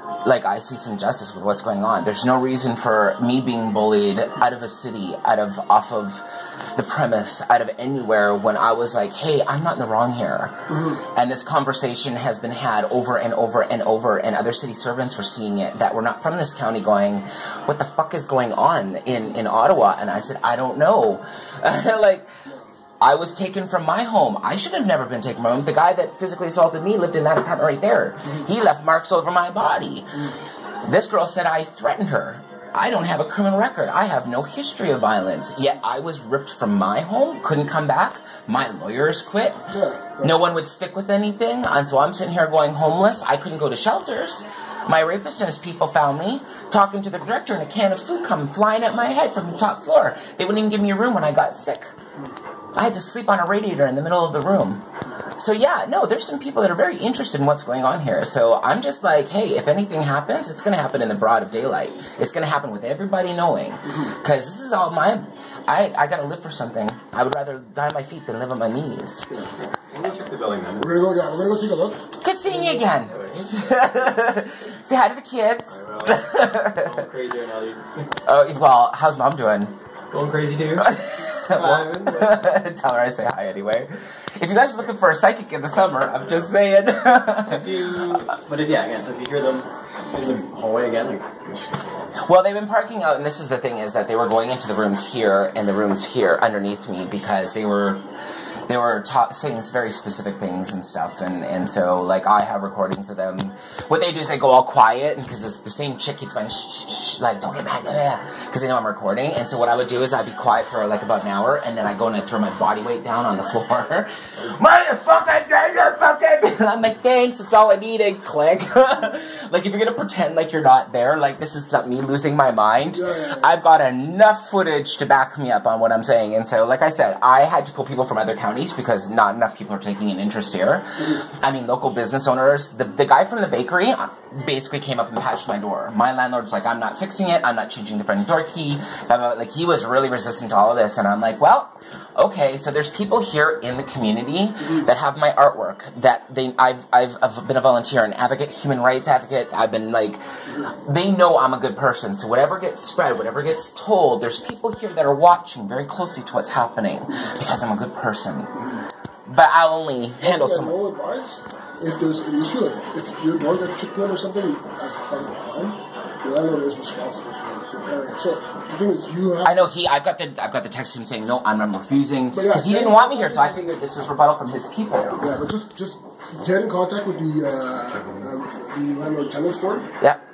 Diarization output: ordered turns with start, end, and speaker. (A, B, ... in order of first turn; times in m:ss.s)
0:00.2-0:22.3 A
0:23.0-0:30.3 A
0:30.8-0:39.7 A
0:39.7-0:40.3 B
0:40.2-0:51.9 A
0:52.7-1:09.4 A
1:09.9-1:11.6 C
1:10.8-1:12.0 B
1:12.2-1:16.9 A
1:12.5-1:13.8 C
1:15.7-1:18.0 C
1:18.2-1:19.7 A
1:20.1-1:22.4 C
1:20.8-1:28.2 A
1:27.4-1:31.9 C
1:32.2-1:38.0 A
1:38.7-2:38.6 A
2:02.9-2:03.5 B
2:39.3-2:40.8 A
2:40.2-2:49.7 B
2:49.4-2:55.3 A
2:52.3-2:53.6 B
2:55.2-2:59.9 B